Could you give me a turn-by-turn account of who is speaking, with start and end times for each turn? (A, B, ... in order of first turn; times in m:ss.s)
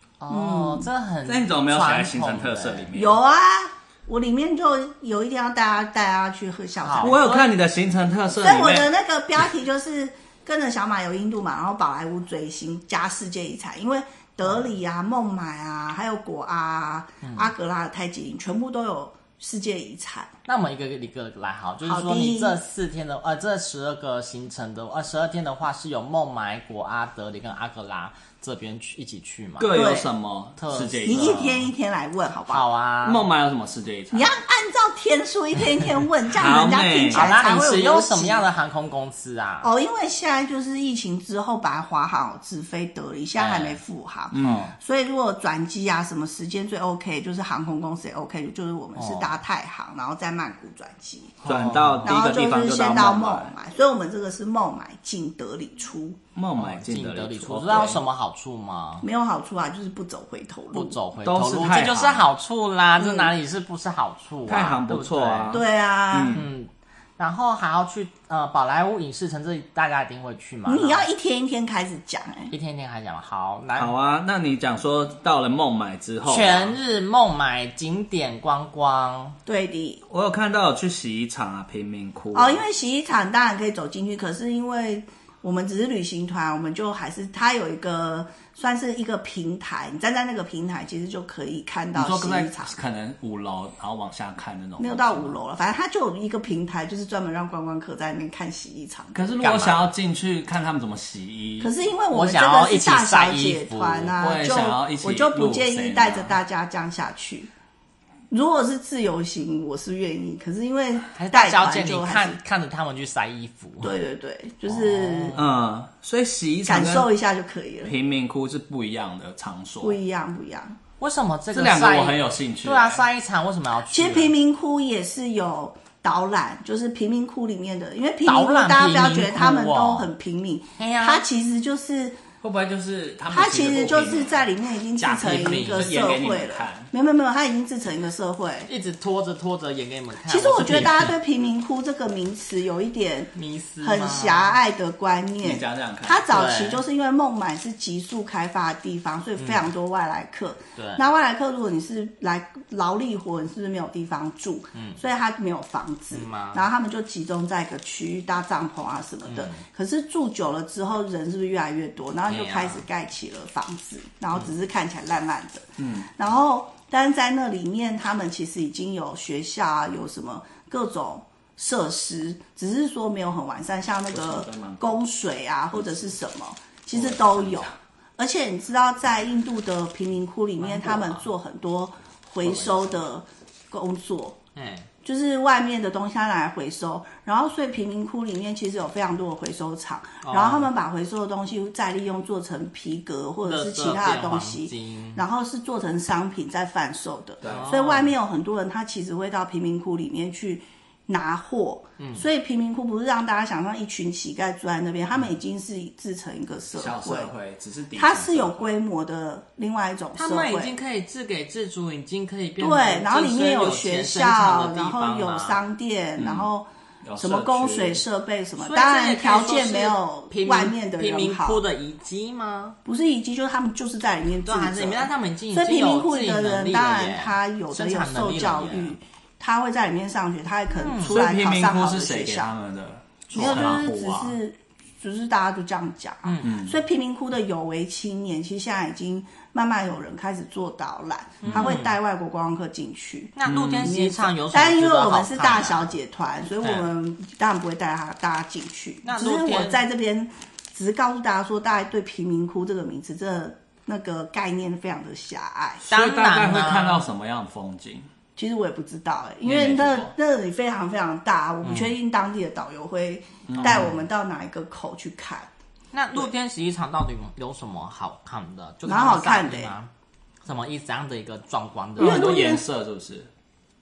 0:00.2-0:02.9 A
0:00.3-0:00.9 B
0:01.3-0:03.2 C
0:02.9-0:07.4 B
0:06.8-0:07.4 A
0:07.0-0:08.9 C
0:08.4-0:20.3 B
0:17.2-0:17.5 A
0:20.5-0:29.9 A
0:21.8-0:22.6 B
0:29.6-0:31.4 C
0:29.7-0:30.1 B
0:30.6-0:31.7 A
0:31.1-0:32.6 B
0:32.5-0:33.3 A
0:33.0-0:34.3 C
0:34.1-0:38.5 B
0:36.3-0:37.3 C
0:37.1-0:39.7 A
0:39.6-0:51.4 B
0:43.4-0:43.8 A
0:44.3-0:44.7 C
0:49.0-0:49.4 A
0:51.4-0:52.1 A
0:51.4-0:53.5 C
0:52.0-0:56.2 B
0:56.4-0:58.0 C
0:56.6-0:59.1 A
0:59.0-1:01.0 B
1:00.7-1:05.6 A
1:01.2-1:02.3 C
1:03.0-1:03.3 B
1:04.5-1:06.4 C
1:05.5-1:06.4 B
1:06.3-1:11.1 A
1:10.7-1:12.5 B
1:12.5-1:13.9 A
1:13.8-1:16.8 C
1:16.3-1:19.4 A
1:19.5-1:20.0 B
1:20.1-1:22.6 C
1:22.3-1:32.8 B
1:31.9-1:35.4 C
1:34.8-1:39.3 B
1:39.1-1:41.7 C
1:39.4-1:39.9 A
1:41.6-1:47.5 B
1:42.1-1:44.2 A
1:44.2-1:46.4 C
1:48.3-1:52.4 B
1:51.1-1:54.0 A
1:53.8-1:55.4 B
1:54.7-1:55.5 A
1:55.4-1:57.1 C
1:56.7-1:57.9 B
1:57.8-2:00.0 C
1:59.8-2:00.8 B
2:01.0-2:04.3 A
2:01.5-2:03.0 C
2:03.9-2:12.2 B
2:08.2-2:10.1 A
2:10.8-2:11.2 A
2:12.4-2:14.5 C
2:13.3-2:18.7 B
2:15.0-2:15.9 A
2:15.7-2:16.9 C
2:18.7-2:21.2 A
2:20.3-2:23.3 B
2:23.4-2:24.6 A
2:23.8-3:04.4 B
2:25.4-2:26.3 C
2:26.3-2:26.8 A
2:29.4-2:29.6 A
2:30.8-2:31.0 A
2:36.1-2:36.6 A
2:39.3-2:39.6 A
2:42.3-2:42.8 A
2:45.8-2:46.1 C
2:54.1-2:54.9 C
2:56.9-2:57.7 C
3:00.6-3:01.3 A
3:02.5-3:02.9 A
3:04.6-3:04.9 A
3:05.0-3:27.3 B
3:10.2-3:10.7 A
3:13.4-3:15.2 A
3:17.4-3:17.7 C
3:17.5-3:18.1 A
3:22.0-3:22.2 A
3:26.8-3:28.7 C
3:28.0-3:30.7 B
3:30.2-3:35.6 A
3:32.6-3:36.7 B
3:36.2-3:36.5 C
3:37.0-3:38.0 C
3:37.2-3:41.6 B
3:38.6-3:42.8 A
3:42.8-3:52.5 B
3:44.4-3:49.0 A
3:50.8-3:51.2 A
3:51.1-3:54.4 C
3:53.3-3:53.9 A
3:53.3-4:15.8 B
3:56.2-3:56.5 A
3:56.4-3:56.7 C
4:01.4-4:02.0 A
4:01.5-4:01.8 C
4:03.4-4:05.9 A
4:03.4-4:03.9 C
4:09.0-4:09.8 A
4:15.8-4:18.1 C
4:15.9-4:17.1 A
4:18.4-4:25.5 B
4:19.4-4:20.1 C
4:21.6-4:21.9 A
4:23.5-4:23.9 C
4:25.9-4:29.9 A
4:28.8-4:29.8 B
4:30.4-4:32.3 A
4:32.0-4:32.6 B
4:32.0-4:33.3 C